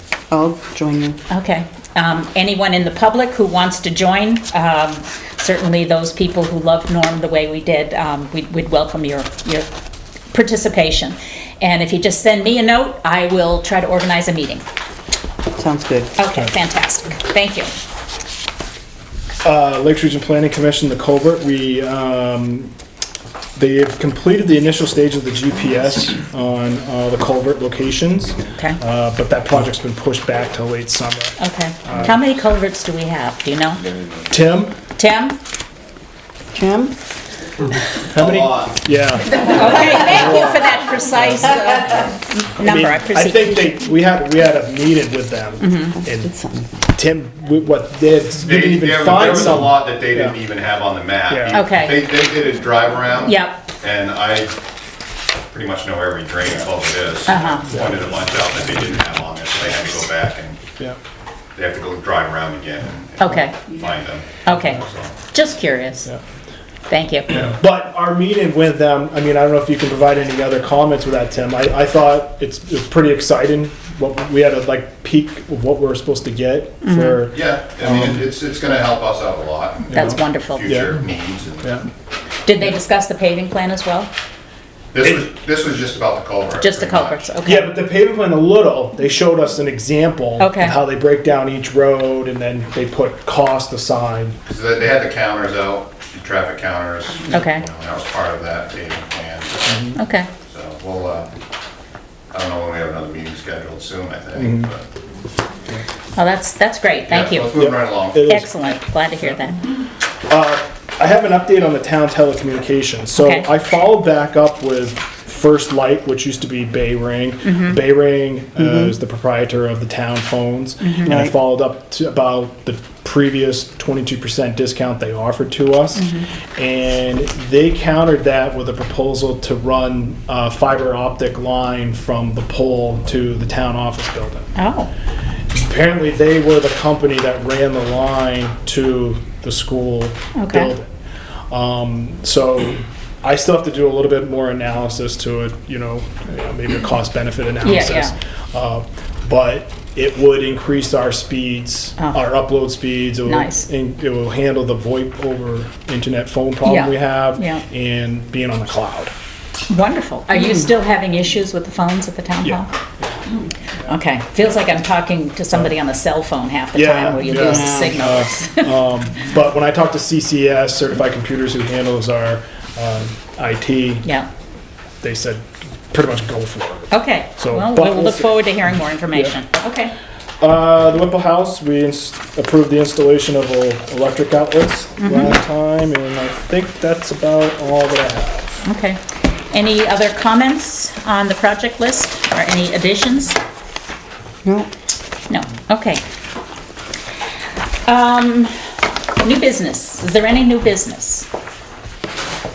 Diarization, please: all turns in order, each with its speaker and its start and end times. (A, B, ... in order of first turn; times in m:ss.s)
0:00.3-0:01.2 A
0:01.3-0:09.7 B
0:10.3-0:14.6 B
0:15.6-0:16.1 A
0:16.2-0:17.7 B
0:19.4-0:22.7 C
0:23.6-0:32.1 C
0:31.4-0:33.8 B
0:34.3-0:34.7 C
0:35.0-0:35.4 B
0:36.5-0:36.9 A
0:38.1-0:38.8 D
0:38.1-0:41.5 C
0:39.4-0:43.8 B
0:41.6-0:41.8 A
0:42.6-0:46.3 C
0:45.6-0:46.0 B
0:46.2-0:46.7 A
0:46.9-0:50.4 C
0:48.4-0:54.5 D
0:51.3-0:51.6 C
0:51.5-0:52.0 B
0:53.2-0:53.6 B
0:55.5-1:00.6 D
0:57.3-0:57.7 B
1:01.5-1:05.1 D
1:03.2-1:03.6 B
1:04.4-1:06.1 B
1:06.9-1:07.5 B
1:07.3-1:18.2 C
1:16.8-1:17.3 B
1:17.3-1:21.8 D
1:19.9-1:21.0 C
1:19.9-1:20.7 B
1:22.4-1:24.1 B
1:24.9-1:27.2 D
1:26.6-1:27.8 B
1:27.4-1:34.4 C
1:30.4-1:30.8 B
1:34.4-1:41.3 D
1:37.3-1:37.6 B
1:39.6-1:40.0 C
1:40.0-1:40.3 B
1:42.3-1:44.8 D
1:44.4-1:44.7 C
1:46.2-1:47.5 B
1:47.1-1:48.4 D
1:47.5-1:49.4 C
1:48.2-1:49.6 B
1:50.3-2:14.5 C
1:53.2-1:53.5 B
1:57.4-1:57.8 B
2:00.8-2:01.2 B
2:01.1-2:01.3 A
2:06.0-2:06.3 B
2:14.6-2:14.9 B
2:15.5-2:20.9 C
2:20.4-2:20.7 B
2:21.5-2:39.1 C
2:27.6-2:28.1 B
2:33.2-2:33.6 B
2:36.6-2:37.6 B
2:39.7-2:42.7 B
2:42.4-2:43.2 C
2:43.9-2:48.7 B
2:46.7-2:54.1 C
2:47.4-2:47.9 A
2:55.0-2:58.4 C
2:56.9-2:59.9 B
3:00.4-3:08.6 C
3:05.0-3:05.4 B
3:08.6-3:13.4 B
3:14.4-3:14.7 A
3:15.3-3:16.0 B
3:17.9-3:18.5 B
3:19.2-3:21.3 B